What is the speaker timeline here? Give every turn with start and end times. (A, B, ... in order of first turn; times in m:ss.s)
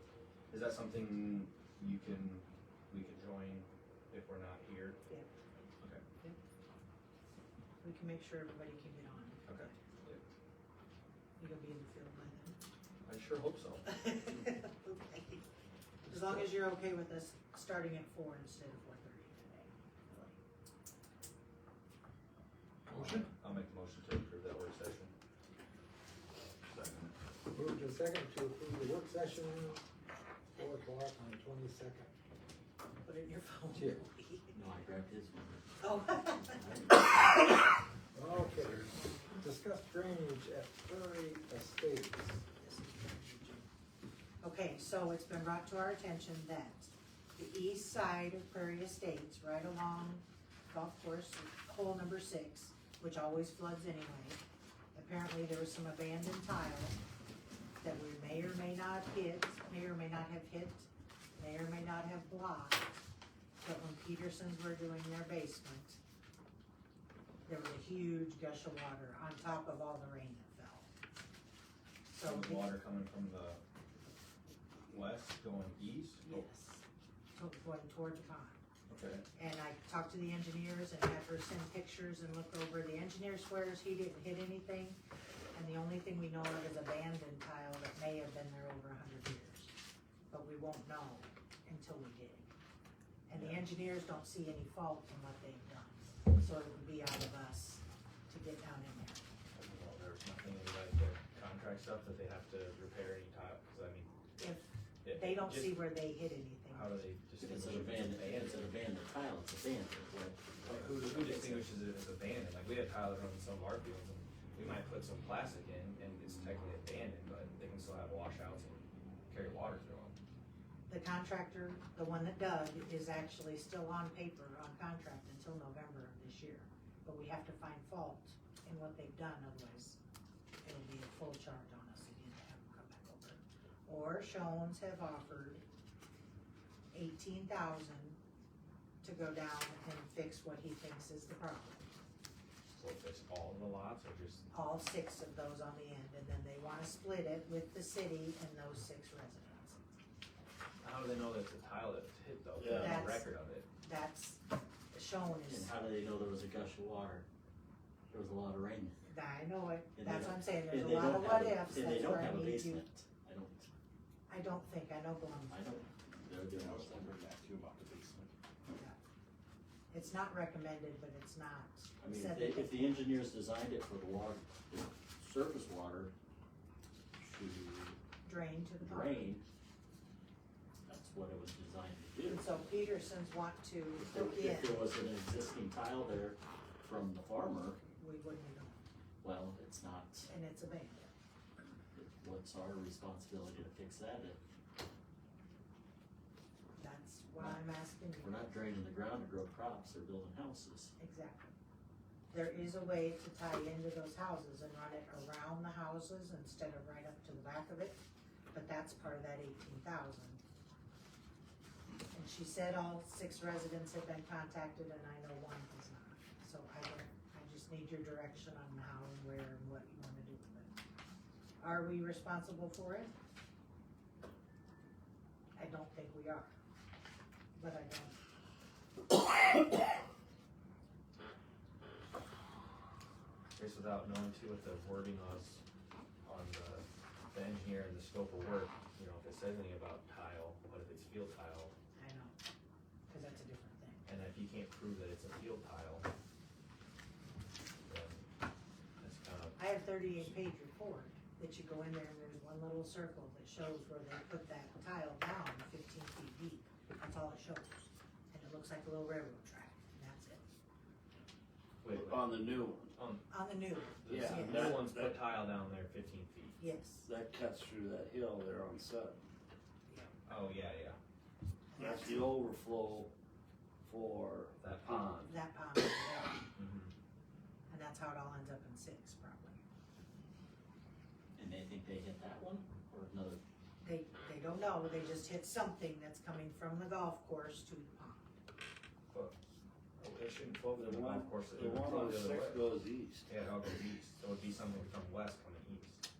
0:00.5-0:05.0 A
0:07.8-0:09.7 B
0:09.5-0:10.2 A
0:11.4-0:12.6 B
0:13.0-0:13.9 A
0:13.8-0:15.5 B
0:16.1-0:20.4 B
0:22.9-0:23.3 C
0:22.9-0:25.1 A
0:26.5-0:27.1 A
0:27.5-0:29.8 C
0:30.6-0:32.1 C
0:33.0-0:34.6 B
0:33.7-0:34.0 C
0:34.5-0:35.7 D
0:35.8-0:36.8 B
0:36.5-0:36.9 D
0:38.1-0:42.4 C
0:42.6-0:43.7 B
0:44.4-0:54.4 B
0:54.9-0:57.0 B
0:57.8-1:03.0 B
1:03.6-1:06.0 B
1:07.4-1:10.9 B
1:12.1-1:12.8 B
1:12.2-1:13.6 A
1:14.9-1:16.4 A
1:16.2-1:16.8 B
1:17.3-1:18.6 B
1:18.9-1:19.2 A
1:19.3-1:25.0 B
1:25.5-1:29.7 B
1:30.3-1:32.5 B
1:33.3-1:39.3 B
1:33.3-1:33.6 A
1:39.5-1:44.1 A
1:44.4-1:47.1 B
1:45.0-1:45.9 A
1:46.7-1:48.7 A
1:47.4-1:51.7 D
1:50.6-2:00.2 A
2:00.9-2:10.0 B
2:10.6-2:15.6 B
2:16.9-2:18.2 B
2:19.0-2:21.9 B
2:22.8-2:24.4 A
2:24.5-2:29.9 B
2:30.8-2:33.7 A
2:32.6-2:33.0 E
2:32.8-2:33.3 B
2:33.8-2:34.4 B
2:34.9-2:35.7 B
2:35.5-2:37.2 D
2:38.1-2:39.0 D
2:39.0-2:42.8 B
2:39.9-2:43.7 D
2:44.3-2:45.5 B
2:45.5-2:47.2 D
2:46.5-2:48.3 E
2:48.7-2:49.0 B
2:49.9-2:53.2 B
2:52.0-2:56.1 D
2:57.2-2:58.0 D
2:58.2-2:59.3 B
2:58.8-2:59.4 D
3:00.8-3:03.0 D
3:02.2-3:04.9 B
3:04.0-3:07.8 D
3:07.8-3:08.8 B
3:09.2-3:10.3 D
3:10.3-3:11.1 B
3:11.9-3:14.4 D
3:16.8-3:18.5 B
3:17.4-3:17.6 D
3:18.2-3:20.9 D
3:21.0-3:21.5 B
3:22.3-3:28.0 B
3:28.5-3:30.4 B
3:32.1-3:40.8 B
3:41.6-3:43.1 B
3:45.5-3:46.5 B
3:47.5-3:48.2 B
3:53.5-3:55.6 A
3:56.2-4:01.8 A
4:02.0-4:02.4 B
4:03.1-4:04.1 B
4:04.1-4:06.1 A
4:07.9-4:08.3 A
4:09.0-4:09.6 A
4:09.6-4:20.4 B
4:21.8-4:22.3 A
4:21.9-4:22.9 E
4:22.9-4:23.3 A
4:23.3-4:24.7 B
4:24.0-4:26.6 A
4:24.0-4:25.2 E
4:26.6-4:27.0 B
4:27.0-4:29.2 E
4:29.9-4:30.1 B
4:30.2-4:31.0 A
4:31.7-4:32.2 B
4:31.7-4:33.1 E
4:33.8-4:35.3 E
4:34.6-4:35.4 A
4:35.2-4:36.5 B
4:36.5-4:36.9 A
4:37.7-4:39.6 B
4:41.4-4:43.4 D
4:43.8-4:48.3 B
4:49.1-4:49.4 A
4:50.0-4:52.6 A
4:50.7-4:53.3 E
4:53.3-4:56.0 A